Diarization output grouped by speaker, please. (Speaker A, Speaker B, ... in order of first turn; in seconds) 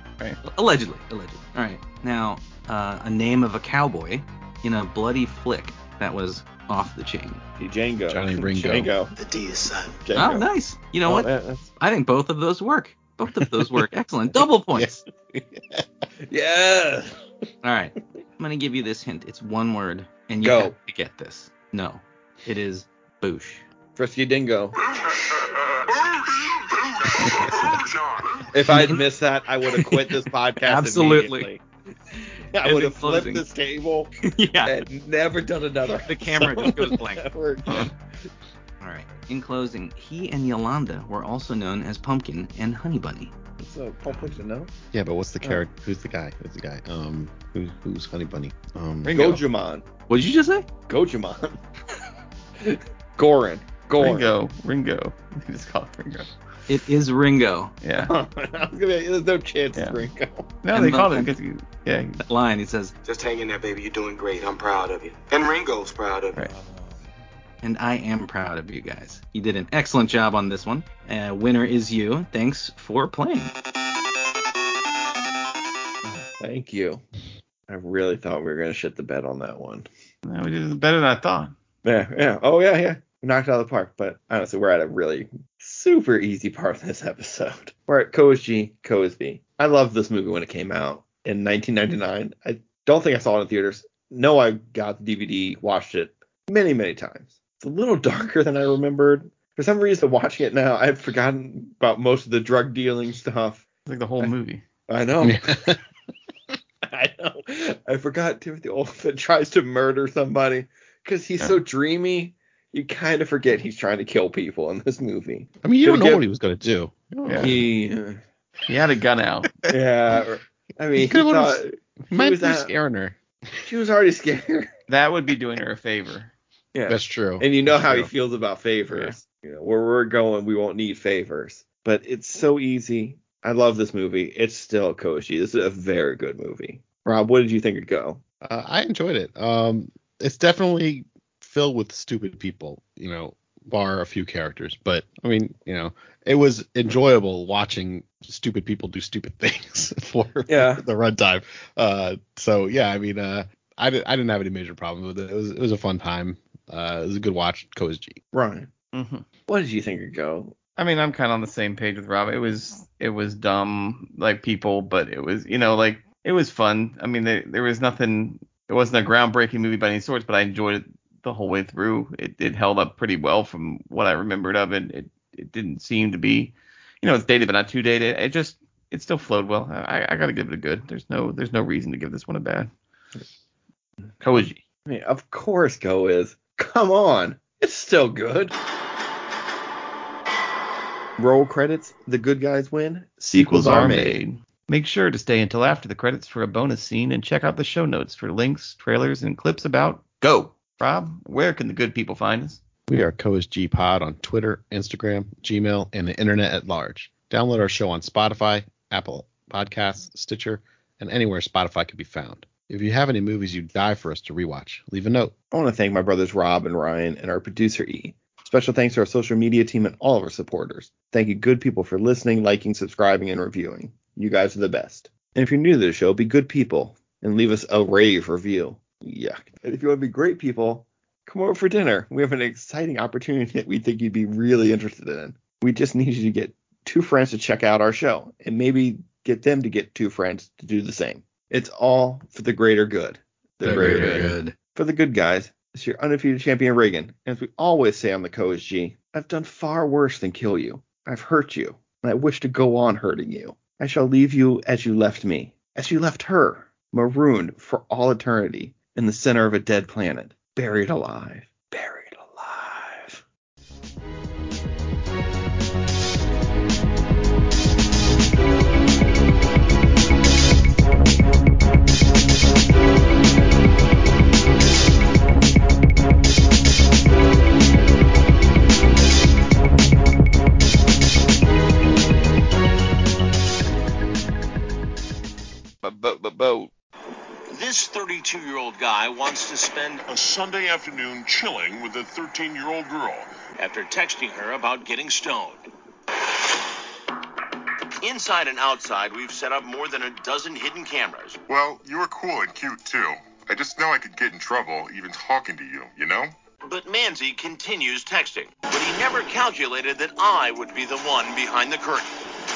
Speaker A: 0.4-7.4, 10.2-15.0, 17.6-23.6, 28.7-29.1, 29.8-31.5, 32.6-33.5, 34.2-34.8, 36.0-37.3, 38.8-43.4, 50.1-50.7, 56.7-57.7, 60.7-61.3, 62.2-62.9, 67.6-73.5, 243.6-244.6
Speaker B: 7.6-9.2, 10.0-10.5, 11.1-11.7, 16.3-17.1, 20.4-20.8, 24.0-24.8, 28.5-34.1, 34.6-37.9, 43.6-44.7, 49.1-49.9, 50.9-51.6, 52.6-54.4, 58.1-60.6, 66.5-67.0, 76.0-77.0, 77.7-79.9, 81.8-103.7, 104.9-105.7, 106.9-116.2, 117.3-118.2, 119.7-122.7, 123.6-124.7, 126.7-138.2, 150.5-150.8, 158.3-158.7, 159.5-160.6, 184.9-188.6, 191.2-194.2, 215.5-263.2
Speaker C: 8.1-8.9, 13.4-13.7, 44.9-49.1, 105.2-105.8, 115.6-117.7, 121.0-123.7, 126.9-128.1, 138.4-158.2, 202.9-215.3, 243.7-244.4
Speaker D: 26.6-27.1, 27.7-28.5, 290.1-293.3, 301.5-306.3
Speaker E: 49.0-49.4, 54.0-56.3, 57.8-58.1, 59.8-60.0, 60.6-62.2, 80.3-81.5, 103.9-104.6, 117.2-117.5, 118.7-119.5, 124.9-126.3, 158.9-159.2, 160.8-182.7, 184.2-184.6, 193.2-202.6, 285.8-286.7
Speaker F: 63.0-66.4
Speaker G: 287.5-290.1, 293.6-295.7, 298.0-301.4, 306.6-312.1